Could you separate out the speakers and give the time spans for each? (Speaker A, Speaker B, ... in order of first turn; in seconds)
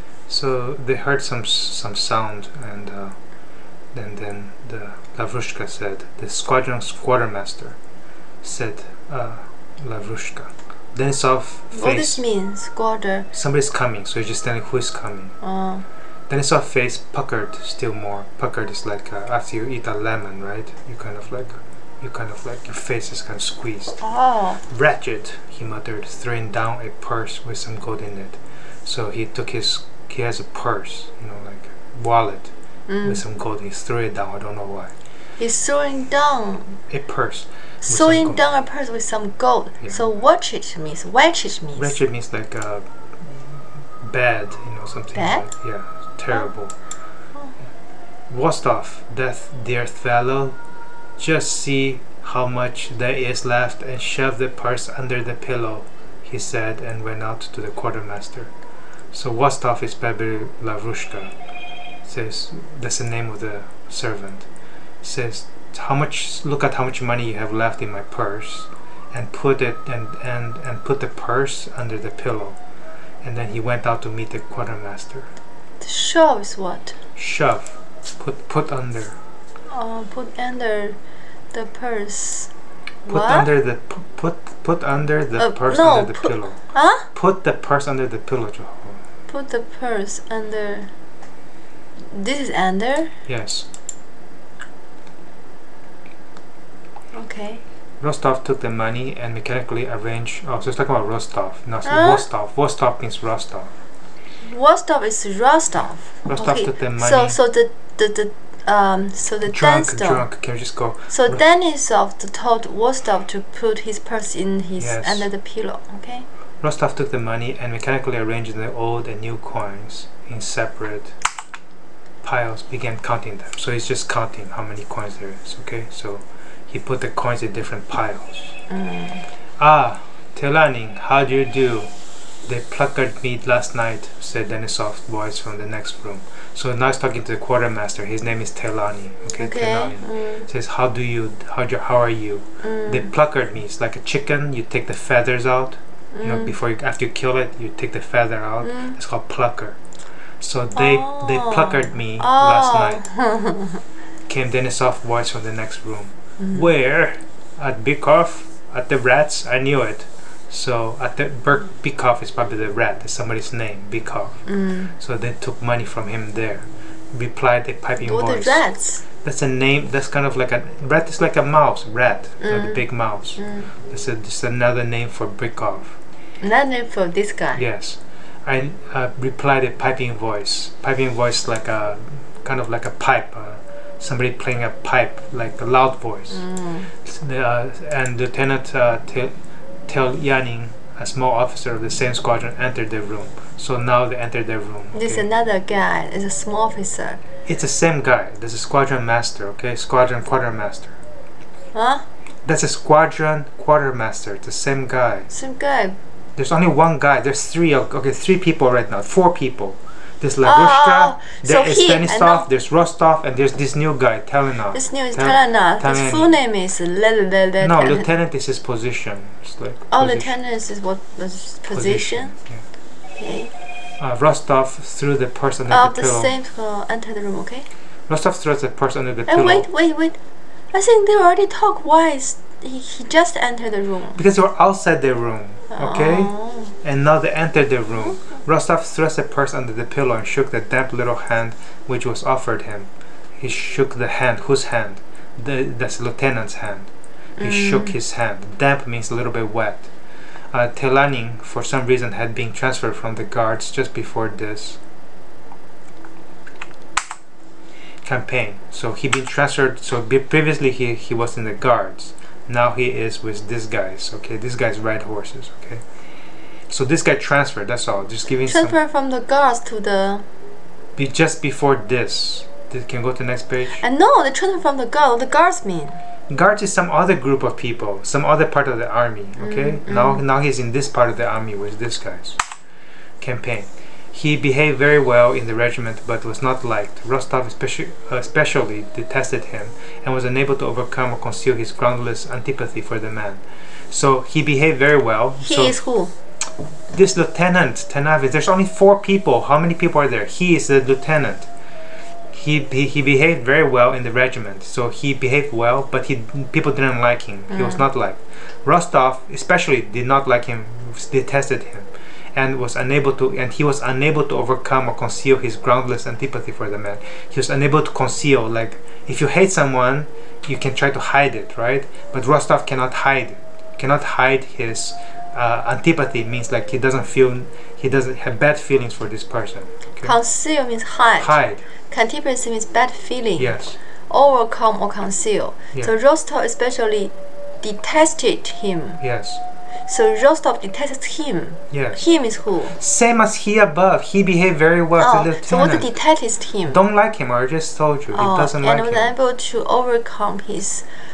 Speaker A: 0.3-3.1, 3.9-7.8, 8.4-12.2, 13.3-15.3, 16.3-24.0, 24.7-32.5, 33.0-34.9, 36.9-38.4, 41.8-46.7, 48.3-50.6, 51.2-58.5, 59.1-61.3, 62.0-64.5, 65.0-72.6, 73.2-75.3, 77.2-79.2, 83.1-89.0, 93.2-93.7, 98.0-103.7, 106.2-107.4, 109.5-111.4, 114.8-115.3, 116.6-121.1, 122.2-128.6, 129.6-131.9, 132.4-149.8, 150.4-153.0, 154.3-175.9, 177.6-195.2, 197.4-201.0, 202.4-205.3, 206.4-216.3, 217.6-220.3, 221.7-222.6, 224.0-226.3, 228.1-229.7, 234.2-249.9, 250.5-254.8, 258.0-265.8, 266.7-268.8, 270.9-273.8, 276.3-282.4, 283.2-295.8, 296.9-301.5, 302.3-330.1, 331.2-331.6, 333.4-333.8, 339.0-339.4, 341.7-342.0, 342.6-345.9, 346.6-349.1
Speaker B: 11.7-13.3, 15.4-15.8, 24.0-24.6, 32.9-33.2, 35.4-36.8, 37.8-42.0, 45.1-45.4, 75.8-77.0, 79.7-81.0, 81.5-82.5, 83.0-83.5, 85.4-87.1, 89.3-90.9, 92.1-93.1, 97.1-97.6, 101.8-102.2, 104.4-110.2, 111.1-116.2, 128.7-129.2, 139.4-140.4, 142.6-143.1, 146.1-146.5, 148.6-149.0, 150.7-153.8, 164.4-164.9, 168.0-169.0, 172.4-172.8, 173.4-173.7, 176.4-177.6, 186.3-186.9, 194.9-197.2, 201.7-202.1, 205.3-206.0, 210.4-212.4, 214.7-218.1, 219.9-222.3, 223.1-223.5, 225.7-227.7, 229.3-230.2, 230.7-234.2, 235.7-236.7, 247.4-247.9, 268.4-270.2, 273.8-276.0, 279.4-280.2, 295.4-296.1, 307.5-307.8, 330.0-333.6, 334.1-339.0, 339.9-342.8, 345.0-346.8, 348.1-350.9